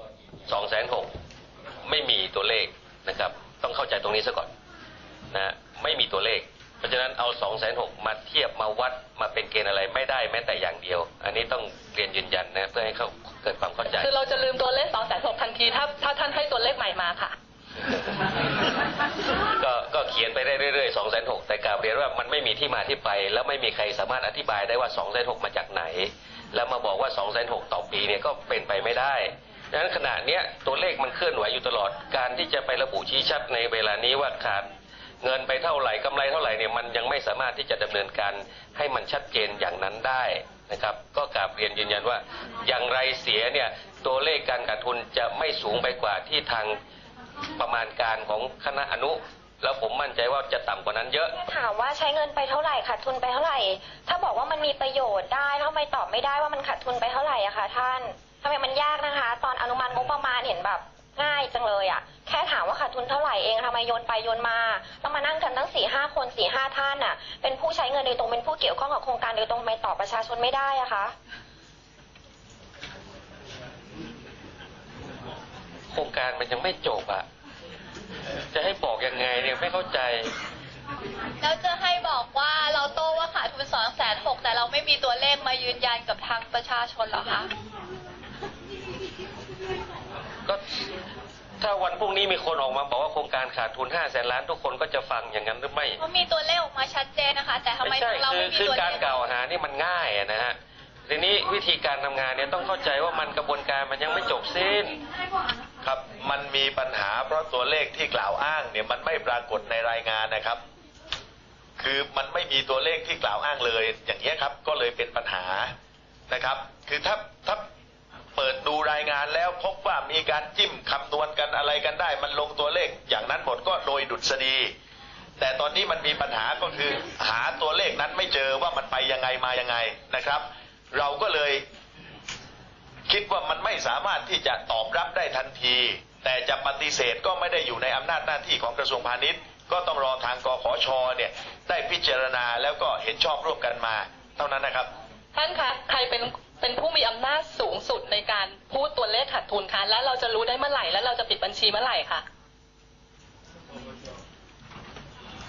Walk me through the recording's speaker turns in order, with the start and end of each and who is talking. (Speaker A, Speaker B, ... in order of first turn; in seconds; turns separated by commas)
Speaker A: 0.5-1.1, Speaker A: 1.8-4.5, Speaker A: 5.3-14.1, Speaker B: 13.9-17.3, Speaker A: 19.6-34.7, Speaker A: 35.2-46.8, Speaker A: 47.6-51.4, Speaker C: 51.4-71.1, Speaker A: 75.9-77.2, Speaker A: 78.5-80.3, Speaker D: 81.4-87.5, Speaker A: 91.6-96.0, Speaker D: 96.0-99.3, Speaker A: 97.8-100.5, Speaker A: 101.1-105.0, Speaker E: 105.8-110.6, Speaker E: 111.8-115.7, Speaker E: 116.3-117.7, Speaker E: 118.3-124.7, Speaker E: 125.4-131.6, Speaker E: 133.1-144.9, Speaker B: 145.3-152.2